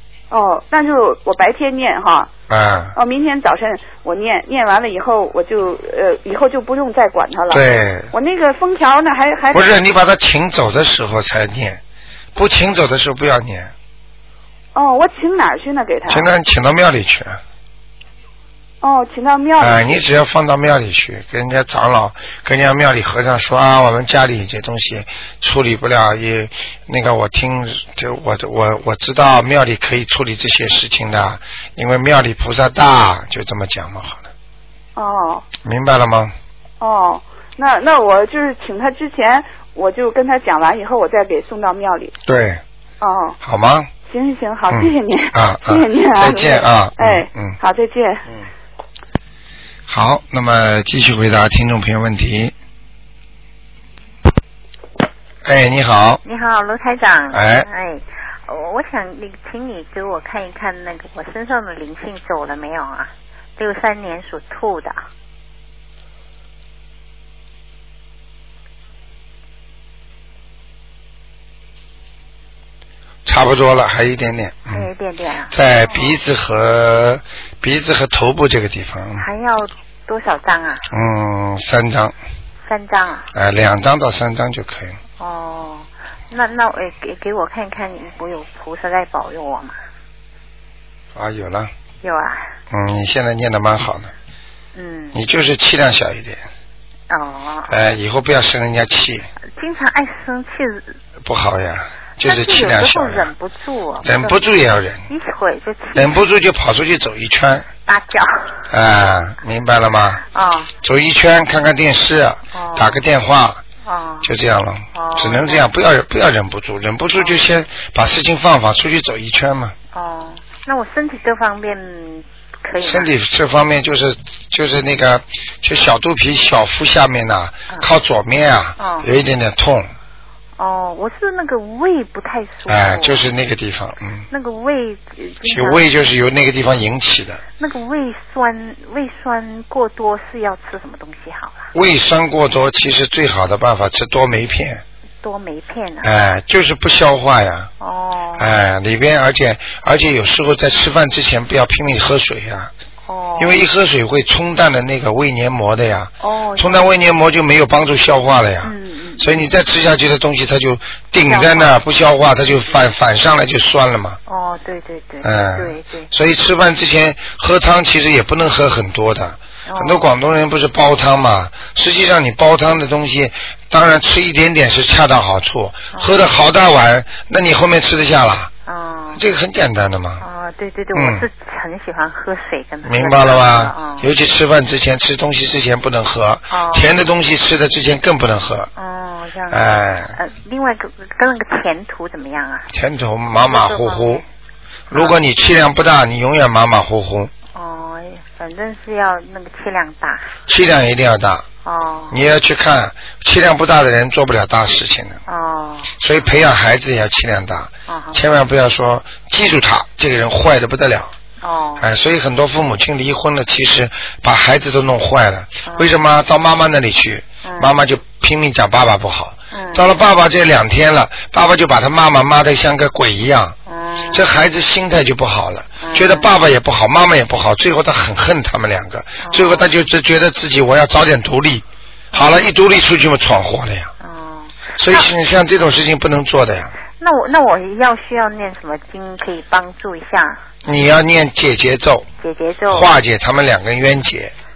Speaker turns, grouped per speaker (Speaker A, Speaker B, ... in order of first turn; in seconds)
Speaker A: 0.3-2.3, 3.0-9.7, 14.7-16.3, 18.8-20.0, 35.0-35.5, 36.8-42.1, 43.0-43.4, 44.1-48.3
Speaker B: 2.5-3.0, 7.5-8.1, 9.5-11.8, 12.3-13.7, 16.1-17.4, 19.6-34.3, 35.6-36.4, 42.3-42.6, 43.4-43.9, 44.7-47.6, 49.9-52.5, 55.4-56.2, 57.3-57.7, 73.3-74.9, 75.5-79.3, 80.9-82.1, 83.3-85.0, 91.2-91.7, 92.7-94.1, 95.1-96.4, 97.7-99.3, 101.2-103.3, 104.0-105.1, 106.0-107.7, 108.7-110.2, 110.8-113.6, 114.2-119.8, 122.8-129.9, 132.7-134.3, 135.5-137.4, 141.7-144.8, 146.0-147.7, 148.4-152.7, 153.4-164.2, 165.2-178.5, 179.1-180.2, 180.9-181.3, 182.8-188.7, 189.5-190.2, 192.7-194.2, 194.9-197.3, 200.5-201.5, 202.1-205.2, 206.0-211.1, 211.8-223.6, 224.1-233.9, 234.8-236.8, 240.6-242.1, 242.7-244.3
Speaker C: 56.2-65.0, 74.7-75.5, 79.2-80.9, 82.7-83.3, 85.2-89.8, 92.0-92.5, 94.8-95.2, 97.1-97.7, 99.6-101.0, 102.2-104.4, 105.1-106.2, 107.9-108.7, 110.3-110.7, 112.5-113.0, 113.8-114.3, 114.9-115.7, 119.9-123.1, 128.8-129.1, 130.6-133.2, 134.3-135.8, 137.6-141.7, 145.2-146.1, 147.8-148.5, 153.1-153.6, 156.2-156.9, 158.6-159.5, 161.2-161.8, 164.3-166.1, 169.7-170.1, 178.7-179.2, 180.2-184.1, 186.5-187.0, 188.8-192.7, 193.4-194.2, 194.9-195.2, 197.5-200.3, 201.6-202.2, 205.3-205.9, 207.9-208.2, 211.4-211.9, 215.6-215.9, 217.4-217.7, 219.5-219.9, 223.7-224.3, 225.8-226.3, 229.2-229.7, 232.1-232.5, 234.0-235.1, 237.0-240.4, 242.2-242.9